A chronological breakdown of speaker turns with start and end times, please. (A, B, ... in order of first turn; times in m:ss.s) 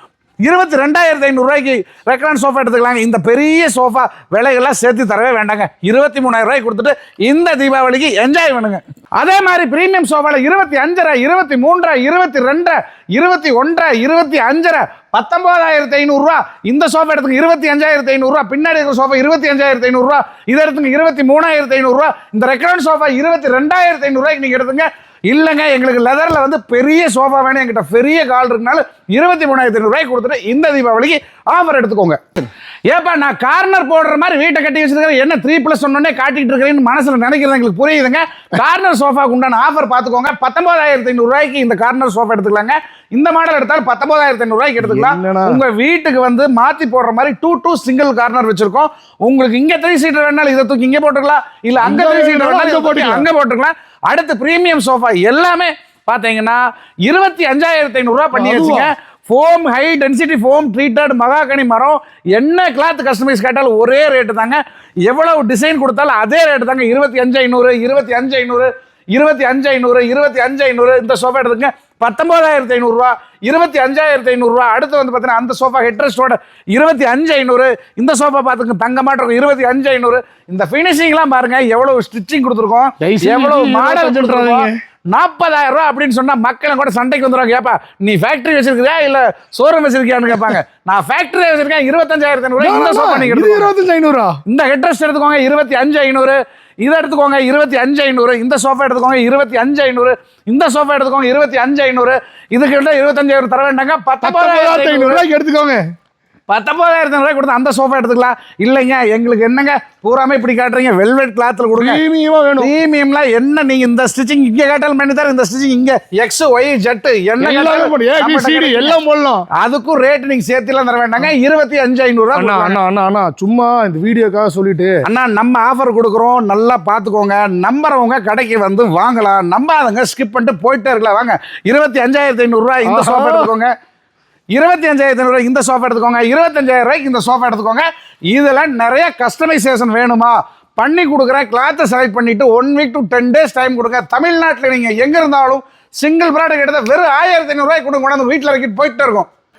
0:00.4-0:32.2 A
0:32.9-1:33.7 A
0:44.8-0:45.6 B
0:51.8-0:53.3 B
0:58.3-0:58.9 B
1:23.0-1:24.8 B
1:32.6-1:34.4 B
1:34.5-1:45.2 A
1:44.2-1:45.8 B
1:46.5-1:52.0 A
1:51.7-1:52.7 B
1:52.6-1:59.0 A
1:57.4-1:59.4 B
1:59.6-2:02.8 A
2:02.3-2:04.9 B
2:05.0-2:13.7 A
2:12.8-2:13.5 B
2:14.5-2:29.3 A